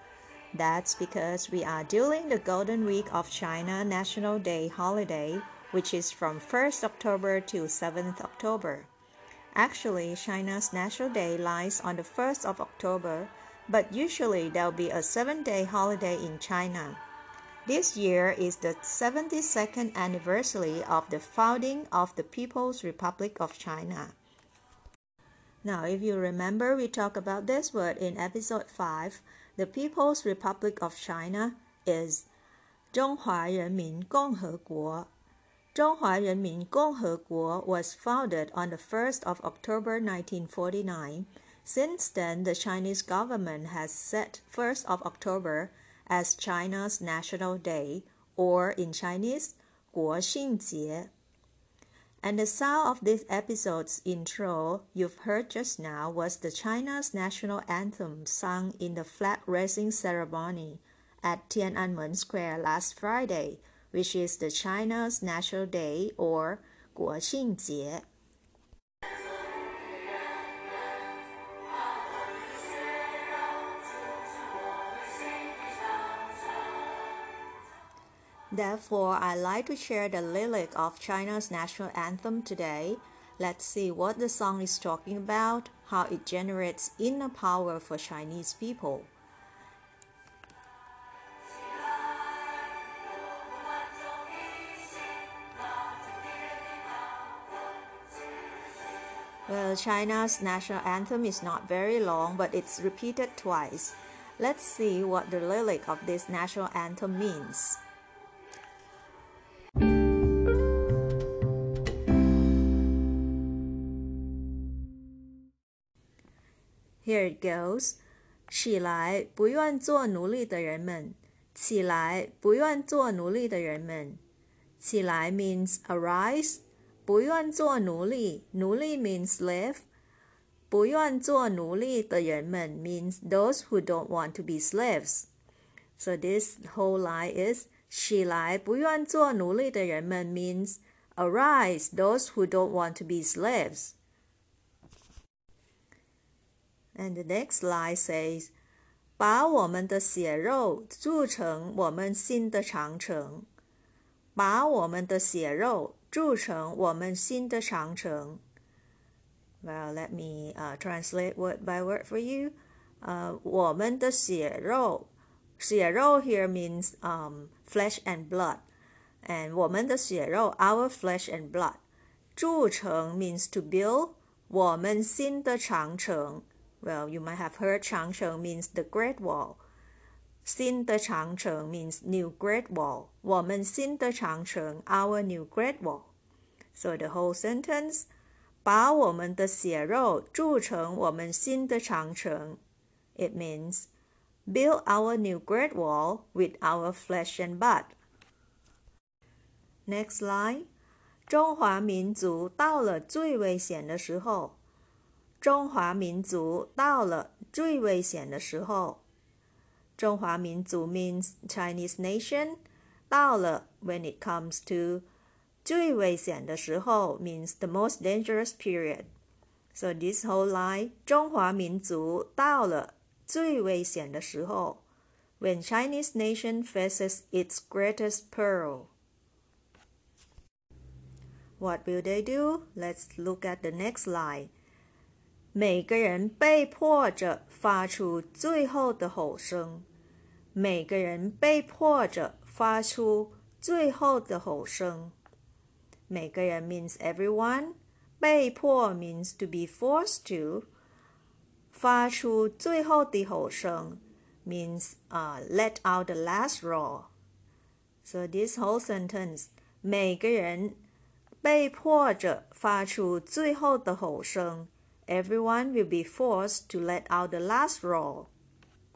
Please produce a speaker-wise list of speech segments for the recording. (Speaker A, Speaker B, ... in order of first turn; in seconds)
Speaker A: 0.5-8.9, 9.5-17.0, 17.6-24.2, 25.6-32.3, 32.9-35.1, 35.7-51.1, 52.2-68.0, 78.5-89.1, 99.5-107.8, 117.0-124.2, 124.8-129.9, 130.7-135.3, 136.0-143.9, 146.9-148.5, 149.2-153.5, 154.3-158.4, 159.6-168.6, 169.2-171.8, 172.3-179.6, 180.4-186.1, 186.7-188.1, 188.6-192.6, 193.1-193.9, 194.4-197.9, 199.8-200.7, 201.3-204.6, 205.4-209.0, 210.0-212.6, 213.1-215.1, 215.6-219.1, 219.7-224.8, 225.4-228.9, 231.6-234.5, 235.5-239.8, 240.5-245.1, 246.1-250.7, 251.7-257.1, 258.0-260.8, 261.4-268.3